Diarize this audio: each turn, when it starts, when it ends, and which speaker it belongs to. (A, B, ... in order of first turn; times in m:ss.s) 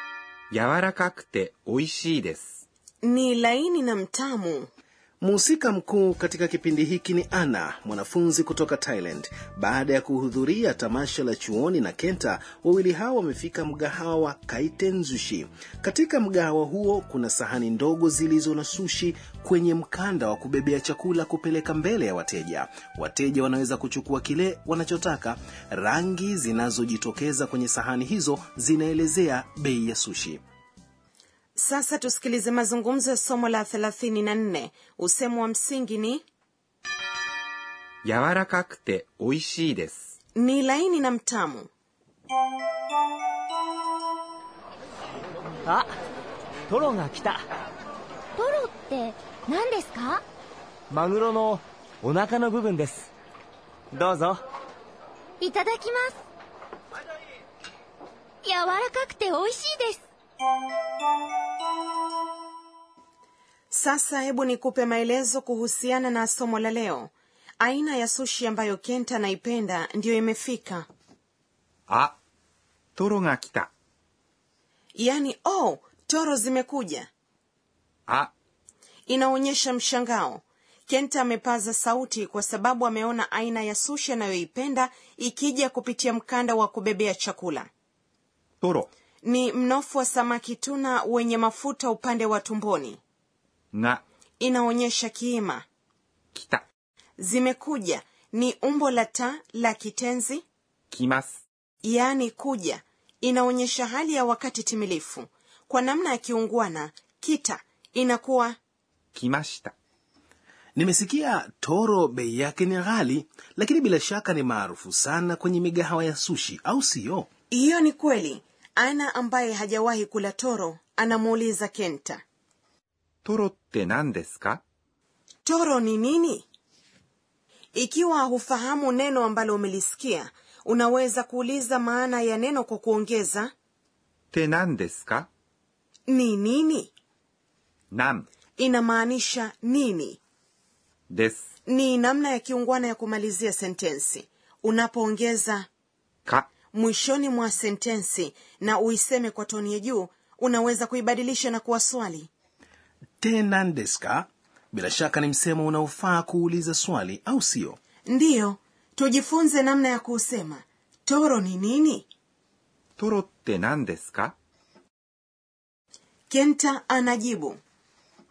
0:00.5-0:02.6 A
0:03.0-0:04.7 B
0:05.2-0:30.4 C
0:31.6-0:36.2 B
0:38.0-0:40.1 A
0:40.4-0:41.7 B
0:45.7-0:45.9 D
0:46.7-0:47.4 D
0:48.4-0:50.2 E
0:50.9-0:53.1 D
0:53.9-0:54.4 D
0:55.4-0:56.2 E
0:58.4-1:00.0 E
1:03.7-1:10.9 B
1:11.9-1:12.1 A
1:13.0-1:13.7 A
1:15.0-1:17.1 B
1:19.1-1:27.7 B
1:28.6-1:28.9 A
1:29.2-1:33.0 B
1:33.7-1:34.0 A
1:34.4-1:35.6 B
1:36.3-1:36.6 A
1:37.2-1:40.4 B
1:40.9-1:41.4 A
1:41.8-1:48.6 B
1:49.1-1:49.7 A
1:50.8-1:57.3 C
1:57.5-2:02.2 B
2:03.2-2:04.6 A
2:05.4-2:06.4 B
2:07.7-2:13.5 B
2:14.3-2:15.3 A
2:16.1-2:16.9 B
2:17.9-2:18.3 A
2:18.6-2:20.2 B
2:21.1-2:21.4 A
2:21.7-2:25.7 B
2:26.7-2:32.3 B
2:33.2-2:37.8 C
2:38.1-2:42.1 B
2:43.0-2:44.4 A
2:46.3-2:47.6 B